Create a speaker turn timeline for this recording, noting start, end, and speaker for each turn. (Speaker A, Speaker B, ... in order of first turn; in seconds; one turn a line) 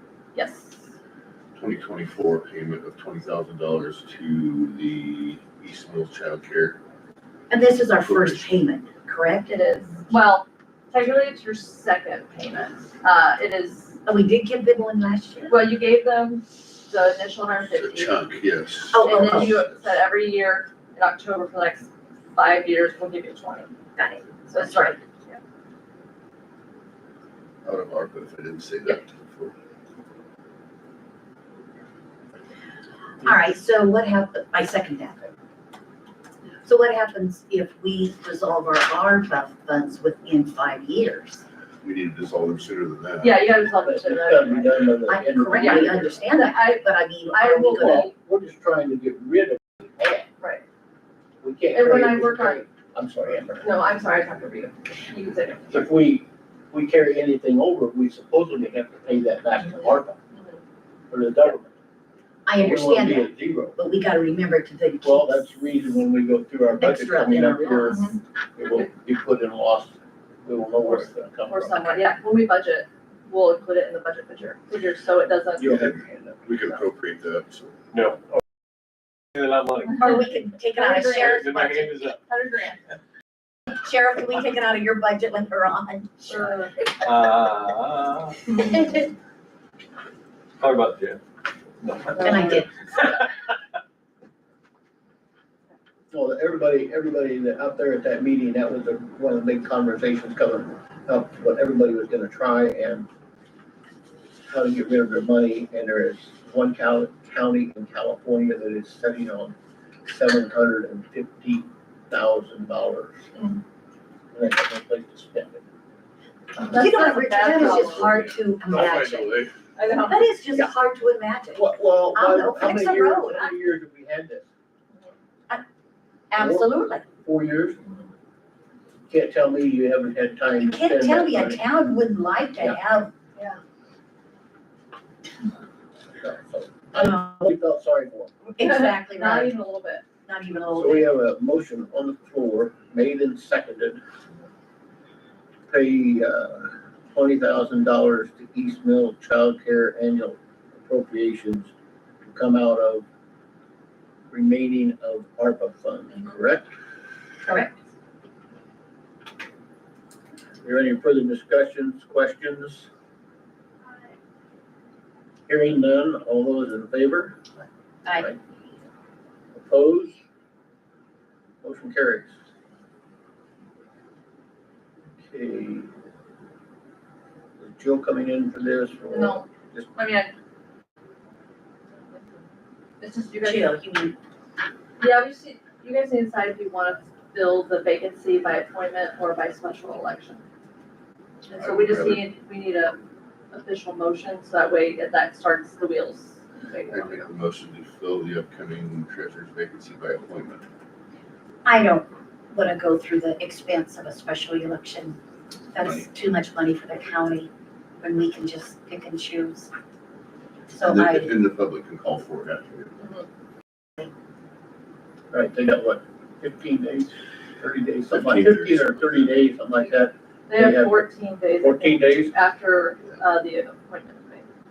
Speaker A: 0.3-0.9
Speaker B: 1.6-6.8
Speaker C: 7.5-9.5
Speaker B: 8.0-8.4
Speaker A: 9.5-14.0
Speaker C: 14.1-15.6
Speaker A: 15.5-18.3
Speaker B: 17.6-19.9
Speaker C: 18.9-19.5
Speaker A: 19.0-23.7
Speaker C: 24.0-25.0
Speaker A: 24.5-25.4
Speaker B: 27.6-29.6
Speaker C: 33.2-35.3
Speaker C: 36.6-41.4
Speaker B: 41.8-43.5
Speaker A: 43.2-44.9
Speaker D: 43.8-46.3
Speaker C: 45.1-48.1
Speaker A: 45.5-48.1
Speaker D: 47.6-50.3
Speaker D: 51.4-53.7
Speaker A: 51.7-52.6
Speaker A: 53.6-55.7
Speaker D: 55.7-60.2
Speaker D: 61.1-61.7
Speaker C: 62.5-65.6
Speaker D: 62.6-63.8
Speaker D: 65.0-69.9
Speaker C: 66.8-68.2
Speaker A: 67.9-68.2
Speaker D: 70.5-71.9
Speaker A: 71.5-75.9
Speaker B: 75.6-77.8
Speaker D: 75.6-76.4
Speaker E: 77.9-78.2
Speaker E: 79.3-82.2
Speaker C: 80.0-81.7
Speaker A: 80.7-82.8
Speaker C: 83.8-86.2
Speaker A: 86.2-87.1
Speaker E: 87.0-89.0
Speaker E: 90.6-91.2
Speaker E: 91.8-93.3
Speaker A: 92.2-92.6
Speaker C: 92.2-92.7
Speaker D: 96.1-103.1
Speaker D: 104.5-109.5
Speaker D: 110.1-113.2
Speaker A: 113.3-113.6
Speaker D: 114.3-115.6
Speaker A: 116.6-118.3
Speaker C: 116.6-119.3
Speaker B: 117.6-119.5
Speaker D: 117.6-118.3
Speaker A: 119.8-120.4
Speaker C: 120.0-123.4
Speaker D: 121.5-124.5
Speaker C: 126.3-127.1
Speaker D: 126.3-127.8
Speaker D: 129.1-131.6
Speaker C: 130.6-133.1
Speaker D: 136.2-138.4
Speaker C: 137.0-137.4
Speaker C: 138.5-139.6
Speaker A: 138.6-140.0
Speaker C: 140.3-141.1
Speaker D: 140.7-144.0
Speaker D: 145.7-151.7
Speaker D: 152.3-153.1
Speaker D: 154.3-156.7
Speaker C: 157.5-157.7
Speaker D: 160.6-162.9
Speaker D: 165.5-167.5
Speaker C: 168.1-168.3
Speaker D: 169.6-170.2
Speaker D: 171.6-172.3
Speaker D: 175.2-175.9
Speaker D: 177.6-179.9
Speaker A: 179.1-180.3
Speaker A: 183.0-183.8
Speaker C: 183.4-184.2
Speaker A: 185.0-190.4
Speaker A: 191.5-193.0
Speaker B: 191.6-192.3
Speaker A: 193.5-197.3
Speaker B: 196.9-200.7
Speaker C: 201.6-205.2
Speaker C: 205.7-207.5
Speaker B: 205.8-206.1
Speaker C: 208.0-209.7
Speaker B: 210.7-213.0
Speaker C: 210.7-211.3
Speaker A: 213.0-213.3
Speaker D: 215.3-221.1
Speaker B: 218.1-219.5
Speaker A: 220.5-224.5
Speaker D: 221.6-222.3